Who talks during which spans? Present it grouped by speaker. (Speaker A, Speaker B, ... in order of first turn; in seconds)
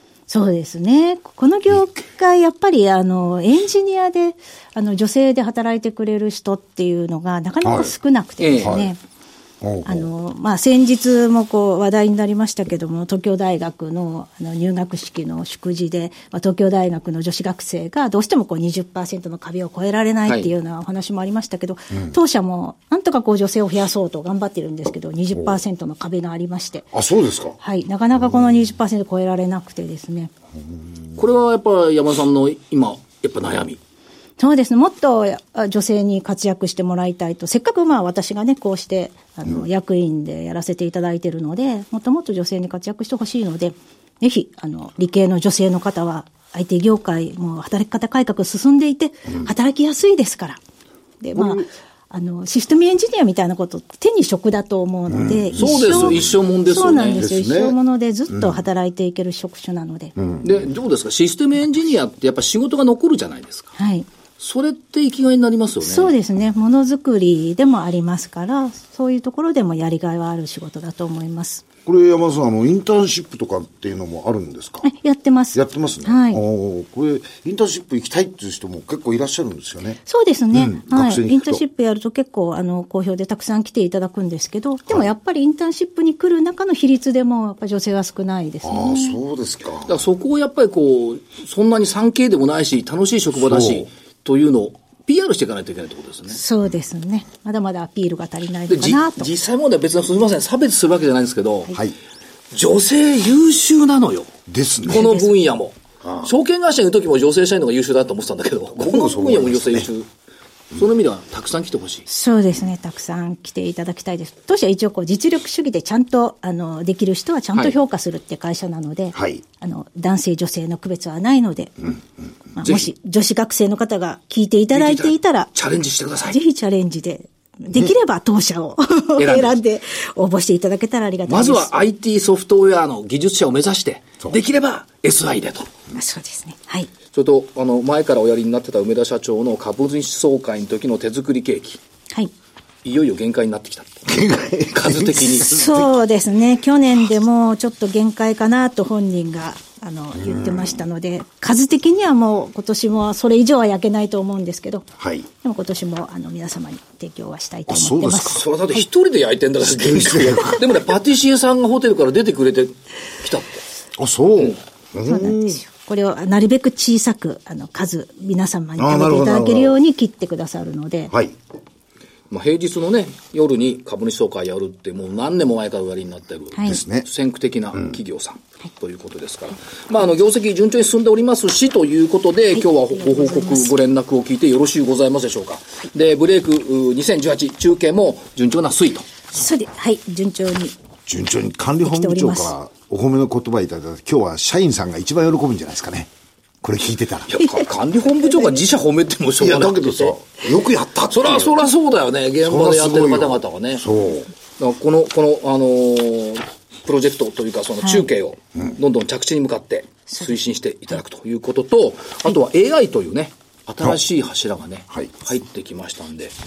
Speaker A: 0.3-9.0, 9.8-26.9, 27.6-30.3, 34.4-50.6, 51.2-60.1, 63.8-64.0, 65.8-71.6, 74.8-76.4, 80.1-89.2, 96.3-99.3, 104.9-105.3, 112.1-121.9, 122.5-125.5, 126.3-131.8, 135.9-136.9, 145.4-154.9, 155.4-158.4, 165.1-171.1, 176.5-176.8, 182.6-183.7, 189.3-190.7, 191.8-192.5
Speaker B: 7.6-7.9, 9.6-10.1, 26.9-27.6, 51.4-51.6, 55.1-56.3, 57.2-57.8, 60.2-60.5, 71.8-74.9, 75.5-80.0, 80.5-81.6, 88.6-90.0, 93.4-93.9, 104.5-105.1, 106.0-106.3, 108.8-109.9, 119.1-119.4, 144.1-145.8, 150.2-150.7, 155.0-155.3, 157.7-158.4, 159.7-160.6, 163.9-165.6, 168.8-169.8, 176.6-177.1, 191.1-196.1, 196.6-197.3, 199.4-201.5, 202.4-204.3
Speaker C: 8.4-8.8, 31.1-33.8, 55.5-57.2, 60.4-63.7, 64.4-66.1, 89.9-96.4, 98.7-101.8, 102.5-104.3, 104.9-110.1, 110.7-112.0, 124.7-126.3, 129.2-129.6, 131.3-135.7, 137.1-141.8, 142.8-145.6, 158.2-163.6, 172.3-189.1, 197.3-200.3, 201.1-203.8, 204.6-216.3